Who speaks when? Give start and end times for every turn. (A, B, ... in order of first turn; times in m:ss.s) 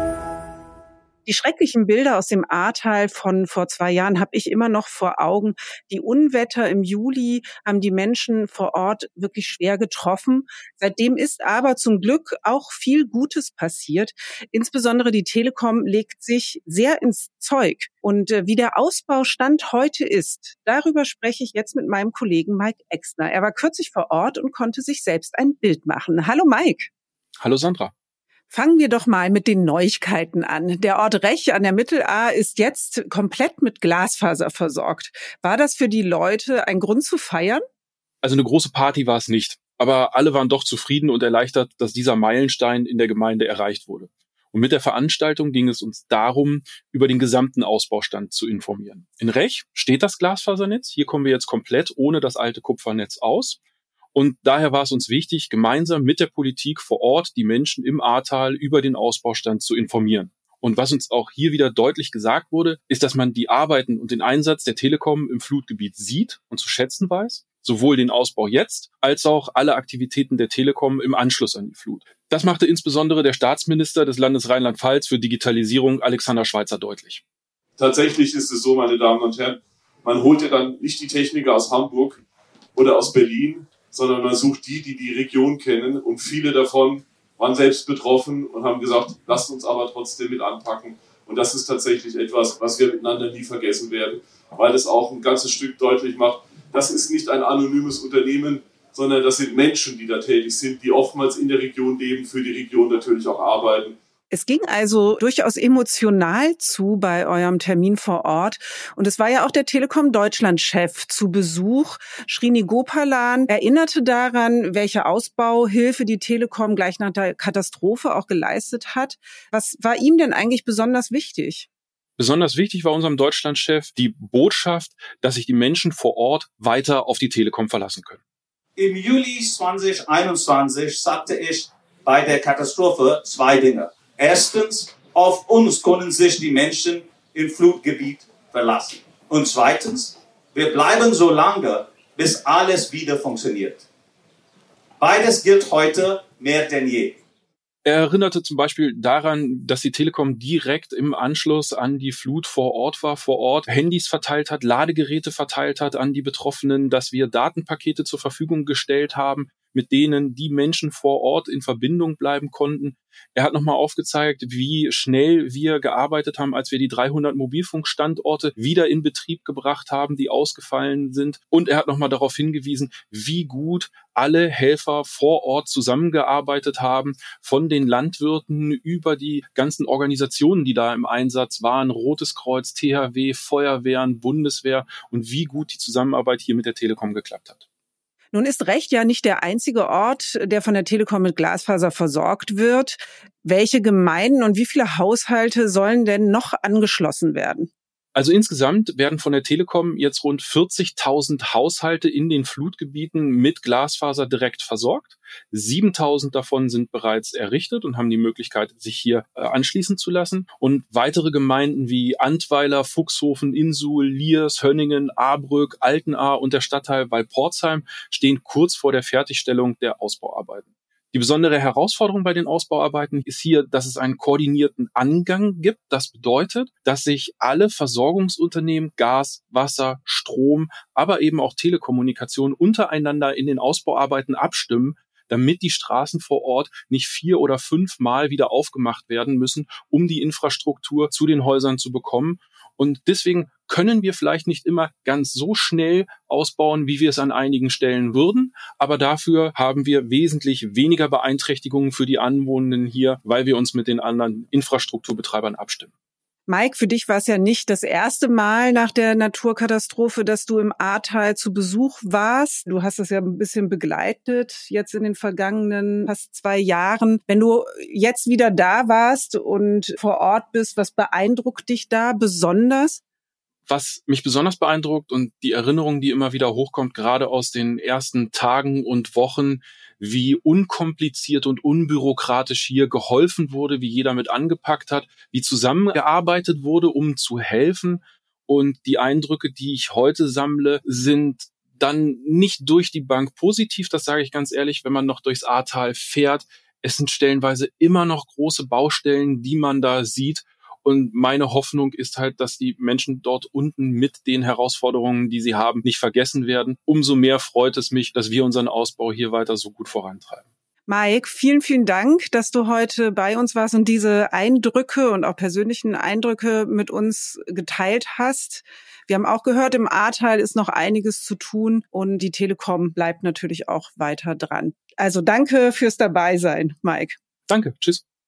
0:01.2-0:26.9 A
0:27.4-0:27.9 B
0:28.5-0:37.6 A
0:38.2-0:53.6 B
0:54.1-1:17.2 B
1:17.8-1:22.2 C
1:22.8-1:44.0 C
1:44.3-2:01.7 A
2:02.2-2:08.2 B
2:08.8-2:23.8 D
2:25.0-2:27.2 D
2:27.8-3:07.6 B
3:08.3-3:17.7 A
3:18.2-4:15.9 B
4:16.5-4:33.0 A
4:33.7-5:10.4 B
5:10.9-5:27.2 A
5:27.5-5:28.0 B